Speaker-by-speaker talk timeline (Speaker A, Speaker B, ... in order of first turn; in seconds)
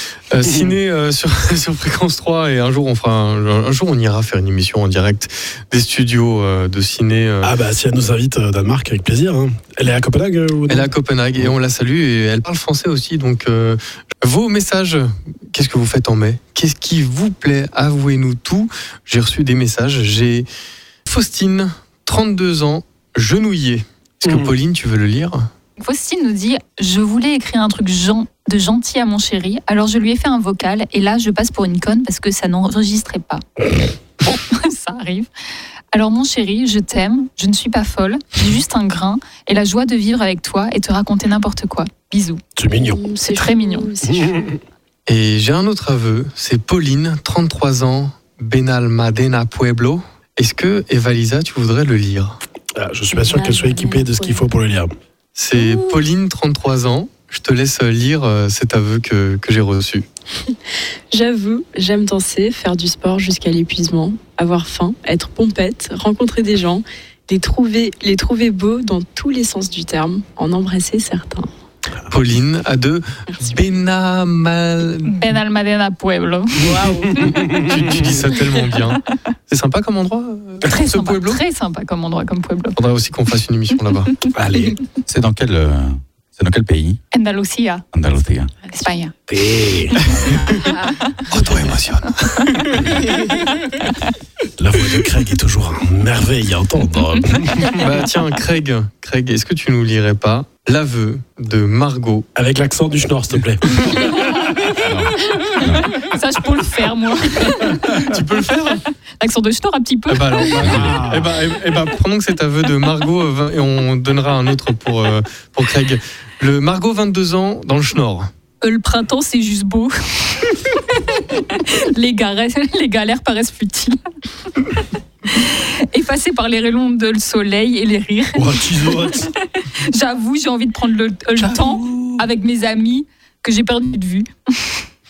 Speaker A: 0.3-7.5, 10.7-20.5, 21.1-25.5, 45.1-52.4, 55.3-60.0, 72.1-75.2, 77.6-81.4, 82.8-84.2, 90.0-90.6, 91.3-93.1, 97.7-102.2, 107.8-108.8, 110.1-118.3, 131.9-132.1
Speaker B: 0.4-0.7, 7.4-10.9, 42.5-43.0, 44.0-44.6, 52.8-54.9, 76.6-78.1, 84.3-84.8, 89.3-90.2, 94.6-97.8, 102.3-104.2, 110.6-111.4, 128.3-129.3
Speaker C: 25.8-33.4, 34.2-35.3, 35.9-42.4, 43.3-43.9, 75.0-77.2, 80.6-82.8, 87.1-87.8, 88.7-89.1, 90.5-91.2, 105.9-108.1, 109.2-110.5, 118.6-124.0, 124.5-134.8
Speaker D: 42.9-44.5, 53.1-54.5, 55.5-56.0, 61.1-71.5, 76.5-77.7
Speaker E: 85.1-87.0, 87.9-88.5, 104.8-105.9, 110.6-110.9